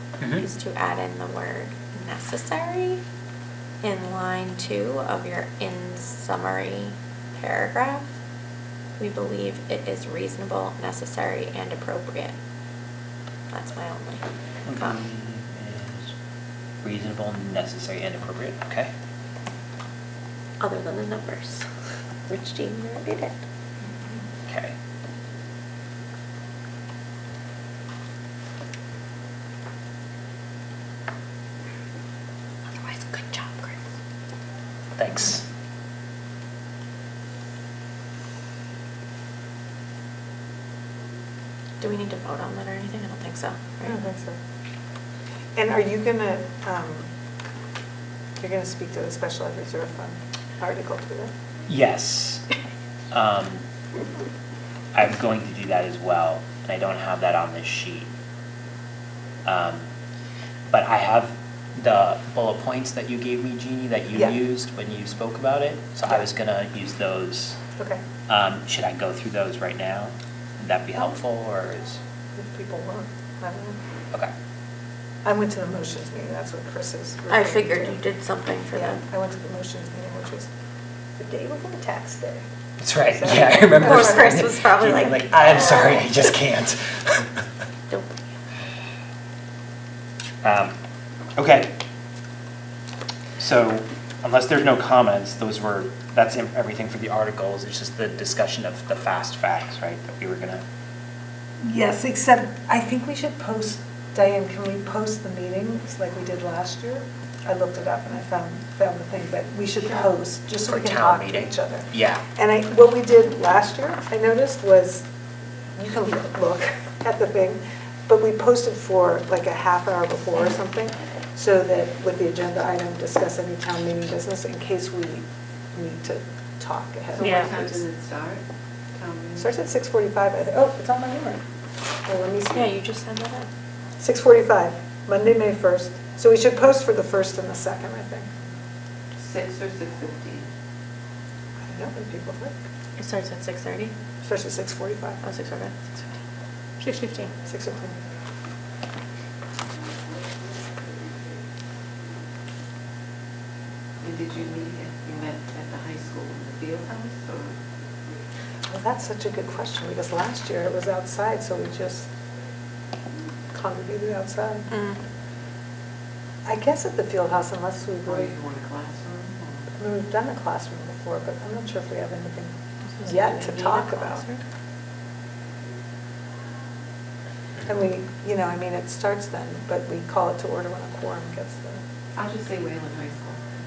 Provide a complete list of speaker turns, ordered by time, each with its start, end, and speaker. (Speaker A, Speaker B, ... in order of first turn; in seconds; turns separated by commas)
Speaker A: 0.3-3.0, Speaker A: 3.8-8.1, Speaker A: 9.0-12.3, Speaker A: 13.5-15.0, Speaker B: 14.7-16.1, Speaker B: 16.8-18.9, Speaker A: 20.6-21.7, Speaker A: 22.3-23.4, Speaker B: 24.5-24.8, Speaker A: 32.8-33.7, Speaker B: 35.0-35.5, Speaker A: 41.8-44.0, Speaker C: 43.9-44.4, Speaker C: 45.5-47.1, Speaker C: 48.4-51.3, Speaker B: 51.7-52.5, Speaker B: 53.1-53.6, Speaker B: 54.9-58.1, Speaker B: 59.5-59.9, Speaker B: 60.7-67.6, Speaker C: 67.8-68.0, Speaker B: 68.3-72.0, Speaker C: 72.3-73.8, Speaker C: 75.2-78.0, Speaker A: 77.3-79.0, Speaker C: 78.8-80.5, Speaker C: 81.2-82.4, Speaker B: 82.8-87.4, Speaker C: 83.1-84.2, Speaker A: 83.7-85.8, Speaker A: 87.9-88.2, Speaker B: 90.4-90.7, Speaker B: 91.4-91.7, Speaker B: 93.4-100.6, Speaker C: 101.6-115.0, Speaker B: 110.7-112.2, Speaker C: 115.8-127.8, Speaker D: 127.1-128.4, Speaker A: 127.2-127.5, Speaker D: 129.0-129.5, Speaker C: 129.3-131.4, Speaker C: 132.0-132.7, Speaker A: 132.5-133.5, Speaker C: 134.0-138.3, Speaker D: 139.2-140.5, Speaker C: 141.7-142.5, Speaker A: 143.0-143.9, Speaker C: 144.2-145.2, Speaker A: 145.2-146.2, Speaker A: 146.8-147.3, Speaker C: 147.4-148.0, Speaker D: 154.0-157.5, Speaker C: 158.7-162.1, Speaker C: 163.5-164.7, Speaker A: 164.7-165.0, Speaker C: 166.4-168.3, Speaker D: 168.1-169.7, Speaker C: 169.7-174.2, Speaker A: 173.0-174.4, Speaker C: 177.6-181.8, Speaker D: 182.1-183.4